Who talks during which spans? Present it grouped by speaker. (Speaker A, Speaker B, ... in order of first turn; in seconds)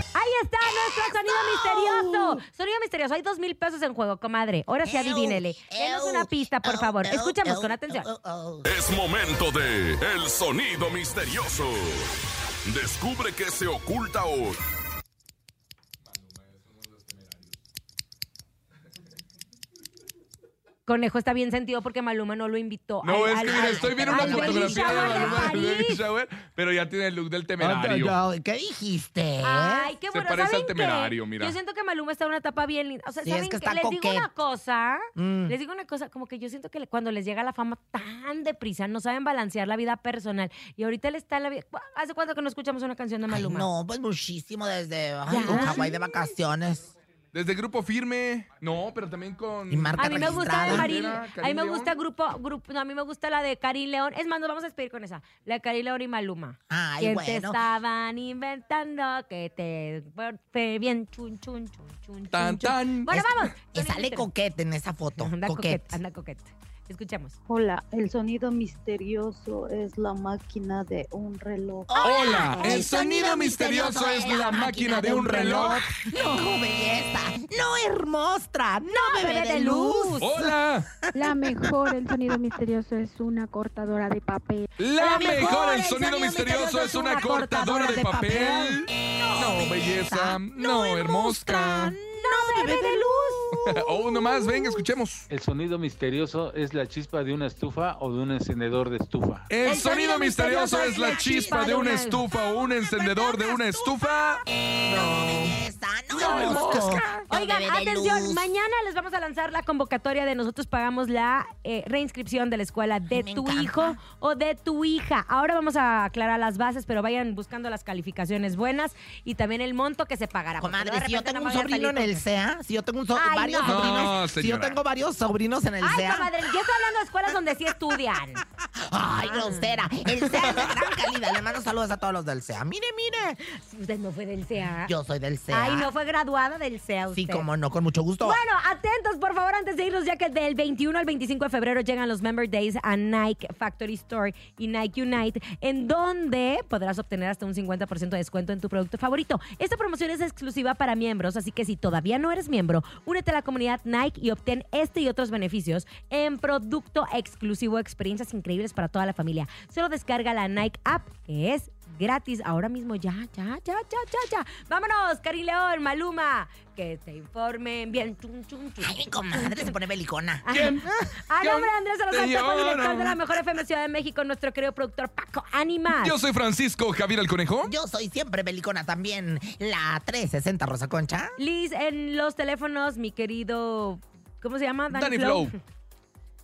Speaker A: 0.1-8.1, 20.9-26.0, 29.4-43.7, 45.3-45.9, 50.0-64.2, 65.2-67.3, 78.9-80.3, 85.0-88.8, 92.2-93.5, 99.6-102.2, 106.2-122.2, 123.2-124.1, 125.8-128.4, 129.2-129.8, 133.4-134.9, 135.5-137.4, 138.2-169.7, 170.4-176.1, 181.4-185.6
Speaker B: 0.8-2.4, 4.8-8.7, 23.4-25.6, 27.6-29.9, 33.2-34.3, 35.1-35.5, 43.3-46.9, 49.7-51.2, 56.7-57.6, 63.1-66.0, 71.9-80.5, 81.2-81.6, 89.2-94.8, 99.6-108.5, 113.1-114.0, 120.6-126.4, 128.8-133.4, 134.8-135.9, 137.1-138.4, 168.8-171.1, 177.6-181.4
Speaker C: 8.7-12.1, 12.7-14.6
Speaker D: 16.9-17.3, 23.0-28.1, 30.1-31.6, 47.3-52.0, 62.3-63.1, 72.0-75.8, 80.2-80.9, 84.8-92.0, 93.7-95.2, 99.5-104.4, 106.2-107.0, 123.6-124.8, 170.5-170.9, 171.4-173.2, 175.9-177.7, 184.9-185.5
Speaker E: 67.5-72.0
Speaker F: 81.1-84.7
Speaker G: 95.3-99.5